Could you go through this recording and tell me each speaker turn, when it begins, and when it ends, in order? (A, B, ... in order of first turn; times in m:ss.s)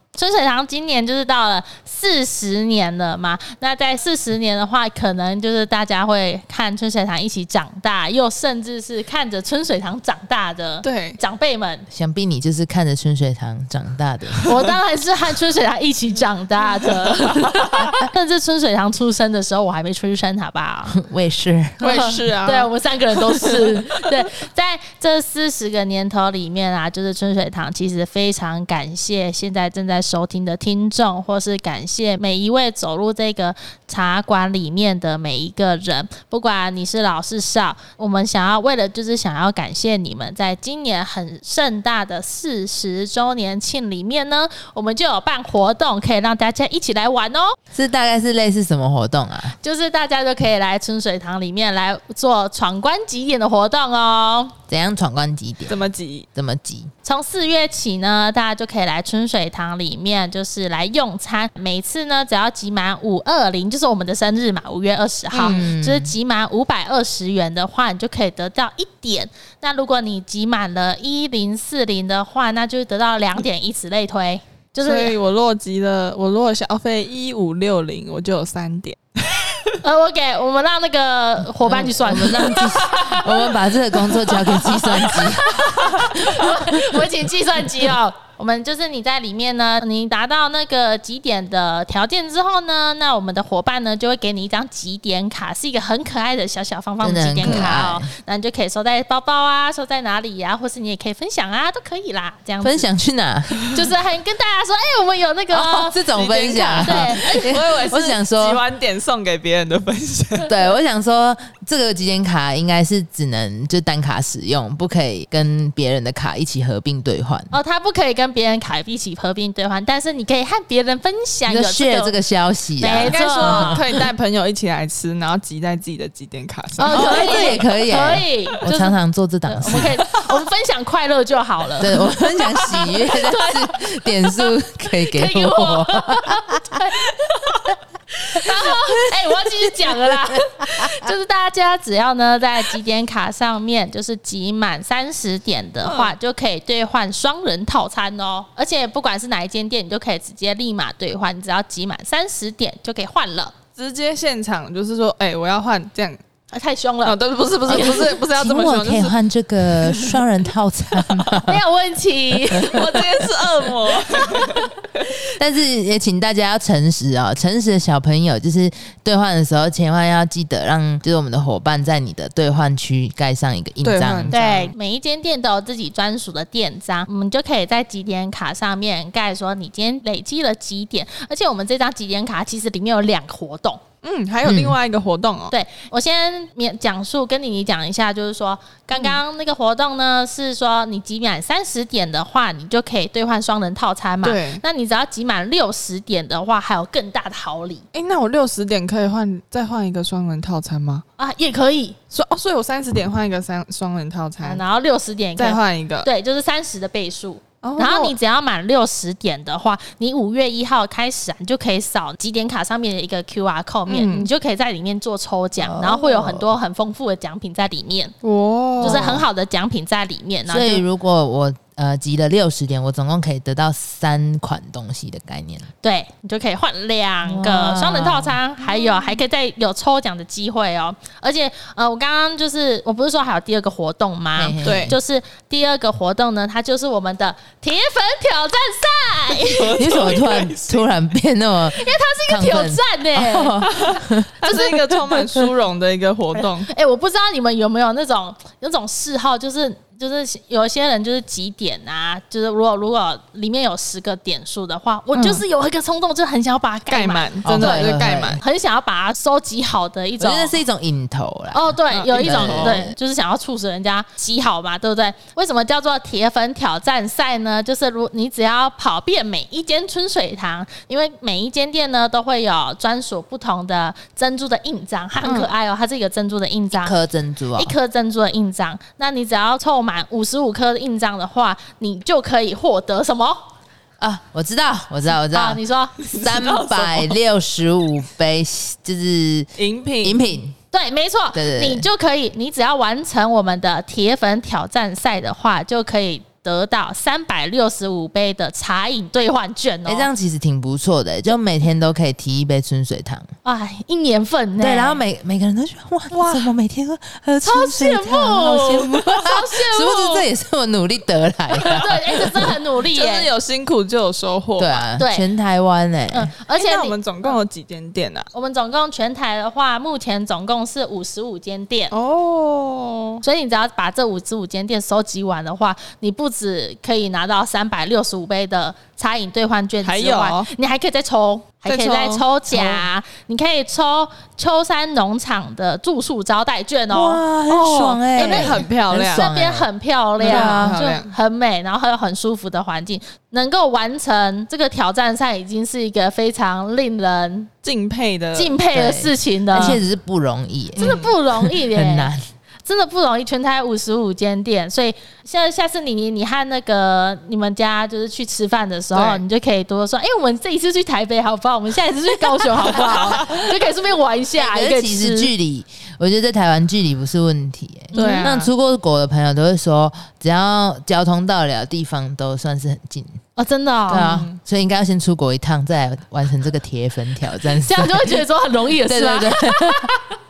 0:00.1-0:11.9 A
0:10.8-0:11.2 B
0:11.9-0:14.5 C
0:14.4-0:21.0 A
0:20.9-0:22.2 C
0:21.8-0:24.0 B
0:21.8-0:47.6 A
0:47.7-0:49.6 C
0:49.6-0:54.6 A
0:54.7-0:55.8 C
0:55.7-0:56.3 B
0:56.3-0:56.9 C
0:57.0-1:15.1 A
1:05.3-1:05.6 B
1:05.4-1:06.1 C
1:14.8-1:19.8 B
1:19.8-1:23.3 A
1:21.6-1:27.1 C
1:24.1-1:42.9 A
1:37.0-1:38.1 C
1:37.4-1:37.7 B
1:42.6-1:43.7 C
1:43.7-1:46.0 A
1:45.5-1:48.6 C
1:46.1-1:50.5 B
1:46.8-1:47.5 A
1:50.4-1:57.5 C
1:57.5-2:02.1 A
2:01.5-2:03.9 C
2:02.8-2:03.9 A
2:02.9-2:07.6 B
2:06.8-2:08.9 A
2:06.9-2:10.1 C
2:09.4-2:13.8 A
2:11.8-2:16.8 C
2:15.0-2:17.6 A
2:18.2-2:33.5 A
2:18.5-2:18.9 C
2:19.7-2:21.1 C
2:25.8-2:26.1 B
2:33.8-2:36.2 B
2:36.5-2:38.2 A
2:37.0-2:39.2 B
2:37.7-2:41.6 C
2:39.7-2:40.2 B
2:41.0-2:41.3 B
2:41.4-2:43.0 A
2:42.5-2:43.0 C
2:42.6-2:44.7 B
2:45.3-2:54.4 C
2:53.8-2:54.7 B
2:54.3-3:03.8 A
3:04.0-3:05.5 B
3:04.4-3:04.8 C
3:05.5-3:17.8 A
3:08.9-3:09.2 B
3:14.2-3:14.6 B
3:17.9-3:21.0 B
3:21.2-3:22.0 A
3:22.1-3:24.6 B
3:24.4-3:38.1 A
3:25.4-3:26.1 B
3:27.6-3:28.1 B
3:33.9-3:34.3 B
3:35.6-3:36.5 C
3:38.2-3:39.1 B
3:38.8-3:40.8 A
3:38.8-3:39.2 C
3:40.5-3:45.7 C
3:45.8-3:59.8 A
3:47.2-3:48.4 C
3:54.4-3:55.0 C
3:54.6-3:54.9 B
3:59.5-4:00.9 B
3:59.8-4:04.4 C
4:01.7-4:03.9 A
4:03.7-4:06.7 B
4:04.5-4:04.9 A
4:06.7-4:17.8 A
4:15.1-4:15.4 B
4:16.9-4:18.4 B
4:17.4-4:18.4 C
4:18.4-4:20.6 A
4:20.2-4:23.0 C
4:21.5-4:37.0 A
4:21.9-4:22.8 B
4:35.2-4:35.5 B
4:36.7-4:37.7 C
4:37.5-4:43.5 A
4:44.0-4:49.5 C
4:45.3-4:46.0 A
4:46.1-4:47.1 B
4:49.6-4:50.2 B
4:50.0-4:50.6 C
4:50.7-5:00.1 A
4:51.3-4:51.9 C
4:59.8-5:03.3 C
5:03.4-5:05.0 A
5:04.6-5:12.5 C
5:06.1-5:06.5 B
5:07.4-5:10.2 A
5:11.6-5:13.3 A
5:12.4-5:14.8 B
5:14.6-5:16.3 C
5:15.0-5:15.2 A
5:16.1-5:17.3 A
5:16.5-5:18.3 B
5:18.3-5:21.9 A
5:21.9-5:23.2 B
5:23.2-5:37.2 A
5:29.8-5:30.5 B
5:31.6-5:32.8 B
5:36.9-5:39.7 C
5:37.5-5:39.3 B
5:38.1-5:47.5 A
5:40.2-5:41.1 B
5:40.2-5:40.8 C
5:47.6-5:48.5 B
5:48.3-5:49.8 A
5:48.7-5:52.2 C
5:50.8-5:51.1 B
5:50.8-5:52.1 A
5:52.6-6:05.3 A
5:58.9-5:59.2 B
6:04.4-6:13.2 C
6:07.9-6:08.5 B
6:07.9-6:08.3 A
6:13.4-6:14.2 A
6:13.9-6:18.2 C
6:13.9-6:14.4 B
6:17.6-6:20.1 A
6:18.8-6:19.9 C